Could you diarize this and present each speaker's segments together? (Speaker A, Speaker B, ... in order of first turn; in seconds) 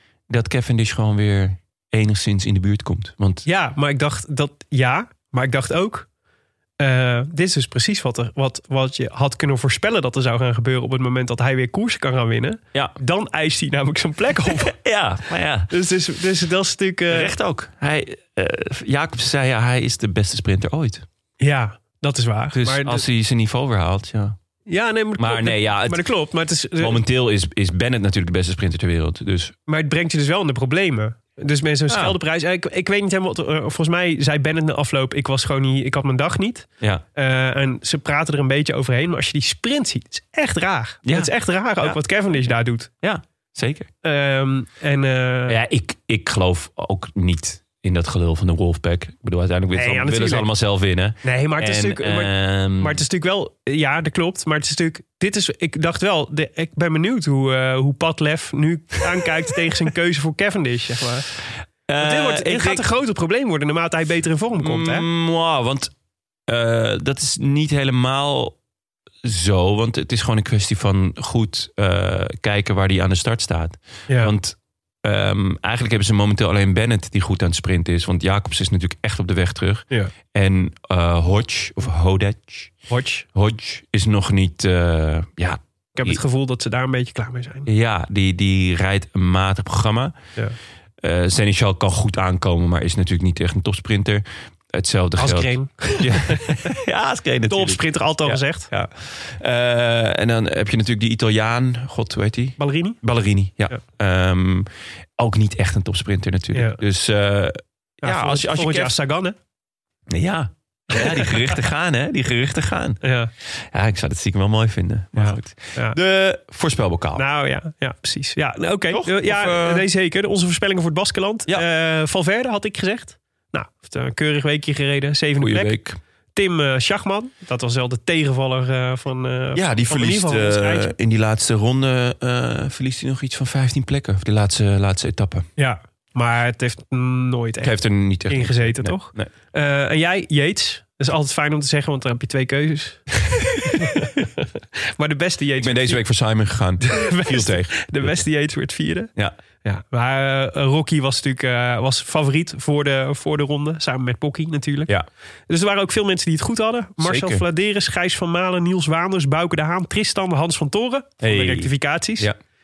Speaker A: 0.3-3.4, 14.5-15.7, 17.1-21.1, 22.5-24.4, 25.2-26.1, 26.8-29.6, 31.9-32.2, 41.0-42.0, 43.0-43.9, 45.5-53.0, 61.9-62.9, 64.6-65.9, 66.5-68.6, 69.2-82.7, 83.3-86.2, 87.7-90.2, 91.0-109.0, 110.1-117.2, 118.9-119.8, 125.4-126.0, 129.5-135.5, 137.6-139.3, 145.6-148.2, 157.0-157.4, 161.2-162.4
Speaker B: 3.5-6.1, 6.8-14.8, 15.7-17.4, 21.4-23.1, 24.7-27.0, 29.7-42.9, 44.0-45.6, 49.7-50.5, 51.2-61.3, 62.0-65.1, 82.9-83.3, 86.0-87.7, 95.2-96.5, 97.5-98.7, 102.6-103.0, 106.5-106.8, 108.0-109.4, 111.0-111.3, 113.0-113.3, 115.2-116.0, 117.2-125.8, 126.3-130.9, 135.6-143.1, 143.6-146.0, 146.8-149.1, 149.6-154.9, 155.5-162.3